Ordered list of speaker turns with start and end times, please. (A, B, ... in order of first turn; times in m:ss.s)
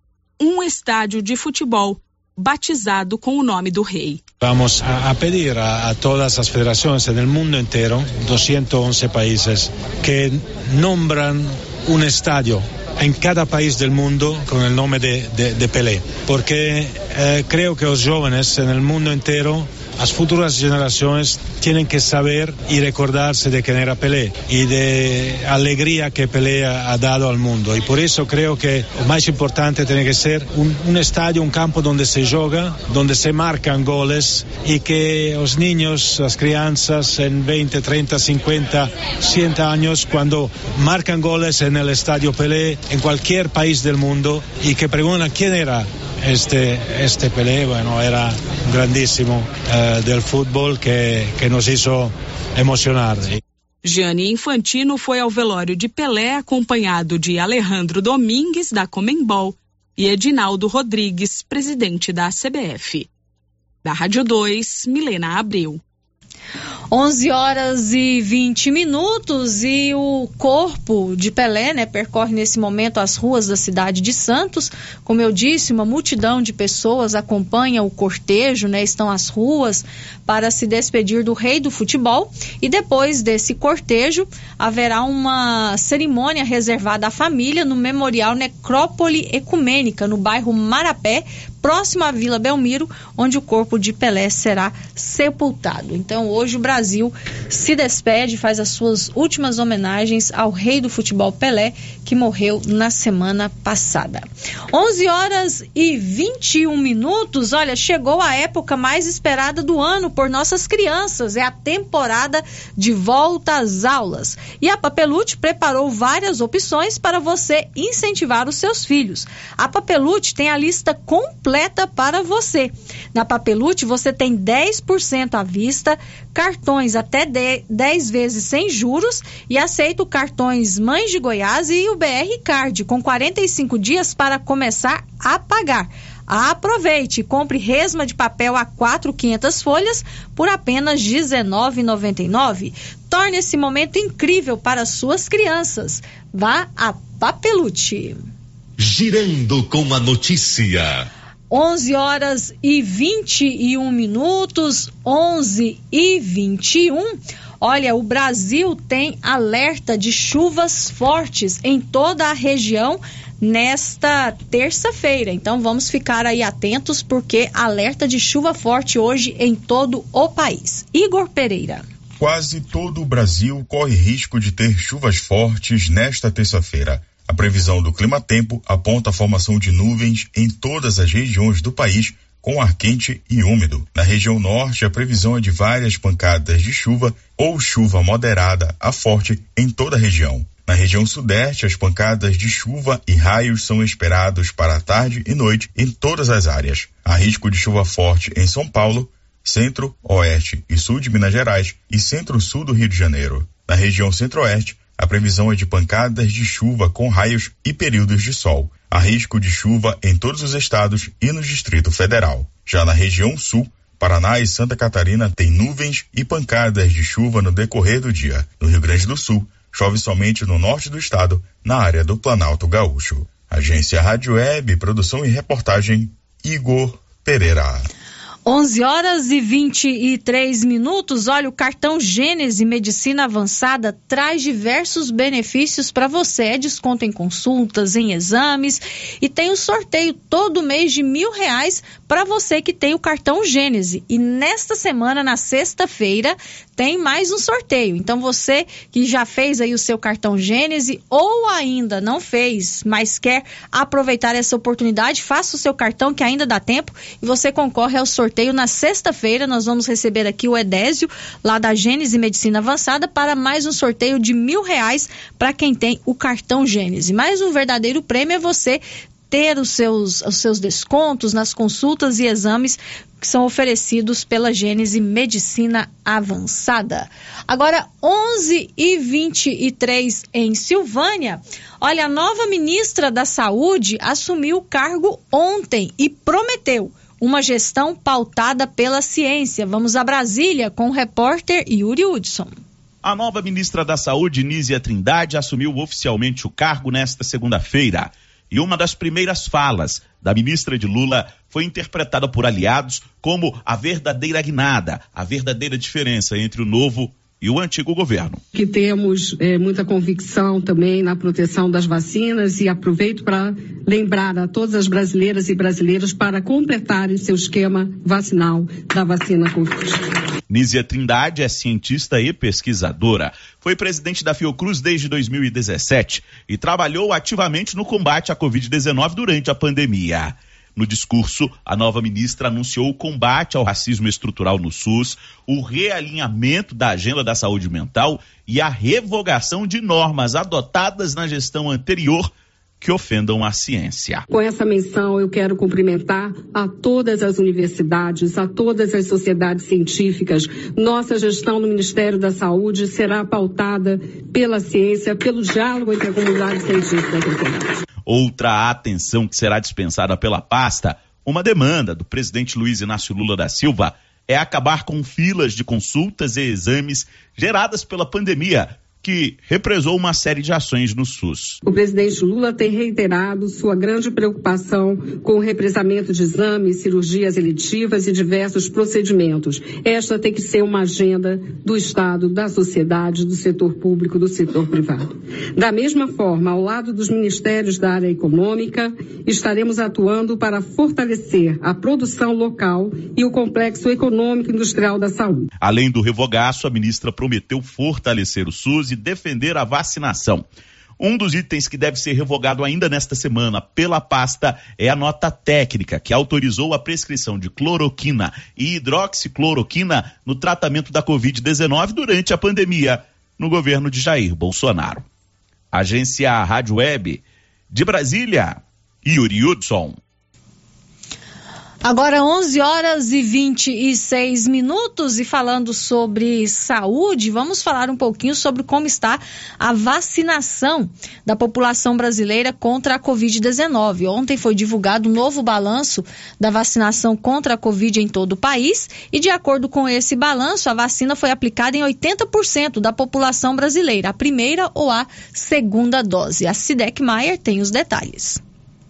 0:00.4-0:04.2 A
0:04.4-0:53.4 B
0:53.8-1:03.1 A
1:03.8-1:05.8 A
1:06.9-2:28.2 C
2:28.8-2:31.1 D
2:31.5-2:51.8 C
2:52.2-3:47.9 E
3:48.4-4:52.5 C
4:53.0-5:08.4 F
5:08.6-5:20.0 G
5:20.5-5:44.2 F
5:44.3-5:57.6 G
5:58.1-6:11.6 F
6:11.7-6:25.0 G
6:25.6-6:35.4 G
6:35.6-6:40.5 F
6:41.0-6:55.0 F
6:55.7-7:00.0 F
7:01.8-7:28.4 C